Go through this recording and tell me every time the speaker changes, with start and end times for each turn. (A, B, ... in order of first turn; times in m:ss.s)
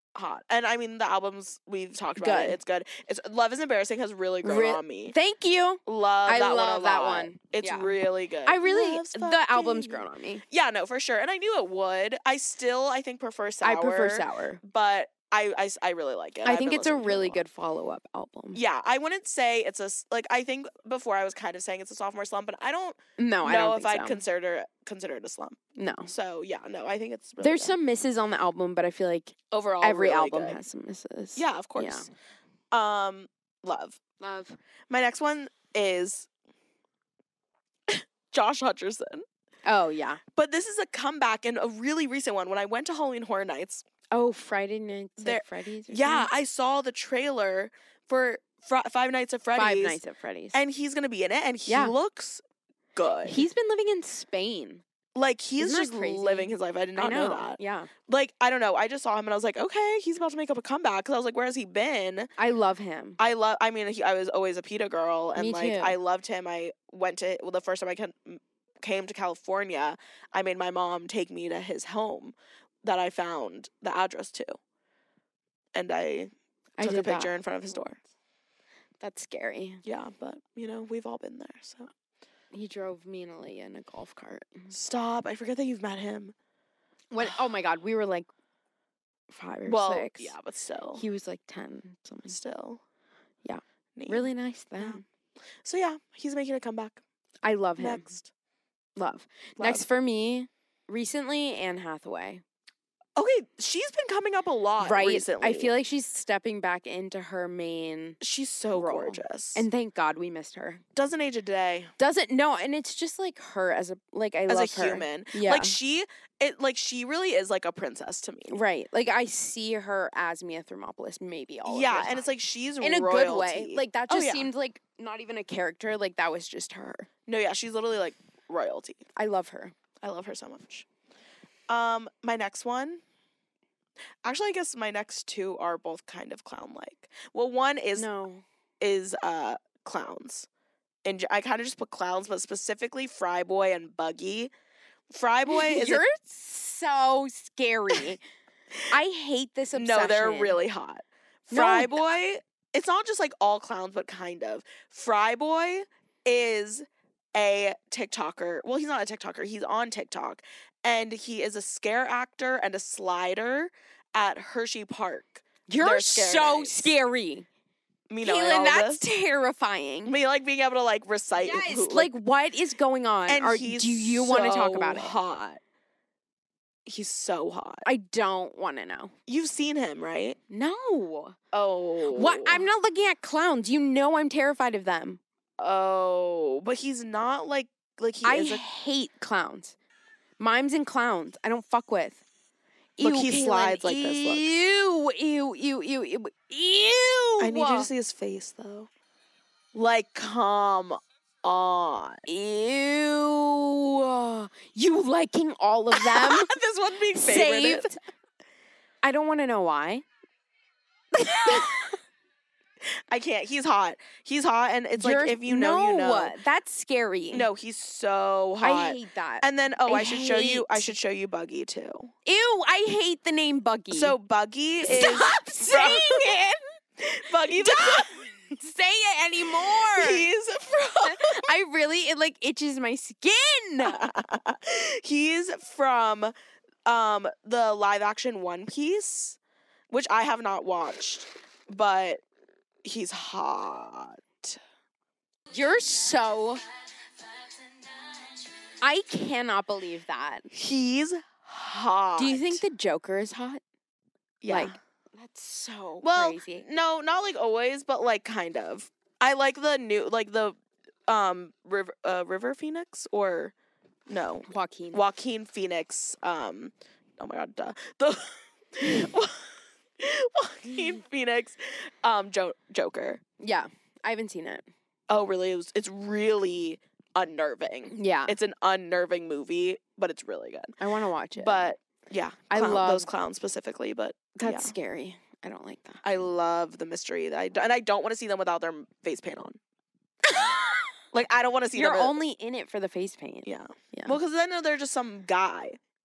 0:00.2-0:05.2 A
0:02.2-0:02.6 B
0:04.4-0:07.9 B
0:05.9-0:17.4 A
0:08.5-0:10.4 B
0:13.6-0:14.6 B
0:16.4-0:18.6 B
0:18.5-0:27.8 A
0:23.2-0:24.2 B
0:25.8-0:26.1 B
0:27.4-0:32.1 B
0:29.5-0:30.6 A
0:31.4-0:32.1 A
0:32.7-0:34.0 A
0:34.2-0:34.6 B
0:34.9-0:36.3 A
0:37.9-0:39.2 A
0:39.7-0:40.2 B
0:40.4-0:43.8 A
0:44.1-0:46.3 B
0:45.2-0:50.0 A
0:49.6-0:50.6 B
0:50.5-0:52.4 A
0:51.7-0:52.0 B
0:53.0-0:53.4 A
0:53.2-0:54.8 B
0:55.2-1:02.3 A
0:55.6-0:57.9 B
1:02.4-1:03.2 B
1:03.2-1:14.6 A
1:05.4-1:06.0 B
1:15.8-1:18.0 A
1:16.8-1:17.3 B
1:19.0-1:19.8 B
1:19.8-1:21.9 A
1:22.5-1:24.7 B
1:24.7-1:26.3 A
1:27.1-1:28.3 B
1:29.3-1:30.3 B
1:29.7-1:31.0 A
1:31.0-1:32.4 B
1:32.3-1:32.8 A
1:33.4-1:35.0 B
1:34.0-1:35.0 A
1:35.6-1:37.0 A
1:37.4-1:38.1 B
1:37.8-1:38.3 A
1:39.0-1:42.4 B
1:39.6-1:39.8 A
1:43.2-1:45.7 A
1:44.8-1:48.2 B
1:48.2-1:49.6 A
1:48.7-1:50.8 B
1:51.0-1:51.9 A
1:52.0-1:55.8 B
1:54.5-1:58.6 A
1:58.5-2:02.3 B
2:01.7-2:04.5 A
2:02.8-2:07.1 B
2:07.3-2:09.0 A
2:09.2-2:09.8 B
2:10.0-2:10.9 A
2:11.7-2:13.0 A
2:14.2-2:18.1 A
2:18.0-2:18.4 B
2:18.8-2:20.5 A
2:21.0-2:24.5 A
2:25.1-2:26.0 A
2:25.5-2:28.2 B
2:28.9-2:30.6 B
2:29.8-2:46.9 A
2:31.5-2:32.1 B
2:45.7-2:47.5 B
2:48.1-2:49.0 A
2:48.2-2:50.2 B
2:50.1-2:52.1 A
2:51.4-2:55.2 B
2:53.3-2:55.6 A
2:56.9-2:57.9 A
2:57.8-2:59.1 B
2:59.3-3:00.4 A
3:00.5-3:01.4 B
3:01.5-3:02.7 A
3:02.1-3:05.2 B
3:05.6-3:08.6 A
3:08.2-3:09.8 B
3:10.4-3:12.2 B
3:13.0-3:17.9 B
3:13.0-3:14.5 A
3:17.4-3:18.9 A
3:19.7-3:22.2 A
3:22.3-3:26.5 B
3:25.9-3:27.9 A
3:27.1-3:28.0 B
3:29.0-3:30.0 B
3:31.2-3:31.8 B
3:33.1-3:36.4 A
3:35.0-3:37.5 B
3:37.3-3:42.1 A
3:38.6-3:40.9 B
3:42.2-3:44.2 B
3:43.9-3:46.3 A
3:44.8-3:46.6 B
3:47.0-3:48.2 A
3:47.4-3:50.3 B
3:49.7-3:51.5 A
3:51.0-3:54.0 B
3:53.8-3:56.3 A
3:56.9-3:59.4 A
3:59.9-4:02.2 A
4:02.8-4:04.6 A
4:05.5-4:06.6 B
4:08.8-4:10.5 B
4:10.5-4:12.6 A
4:12.2-4:13.6 B
4:14.4-4:14.8 A
4:14.5-4:16.6 B
4:16.0-4:23.5 A
4:24.1-4:29.5 A
4:24.5-4:25.0 B
4:30.0-4:33.2 A
4:33.4-4:34.7 B
4:35.1-4:40.8 A
4:37.9-4:38.4 B
4:40.8-4:41.7 B
4:41.4-4:44.7 A
4:42.5-4:43.1 B
4:44.4-4:46.0 B
4:46.0-4:49.6 A
4:50.3-4:50.9 B
4:51.1-4:52.2 A
4:51.8-4:54.2 B
4:53.4-4:55.8 A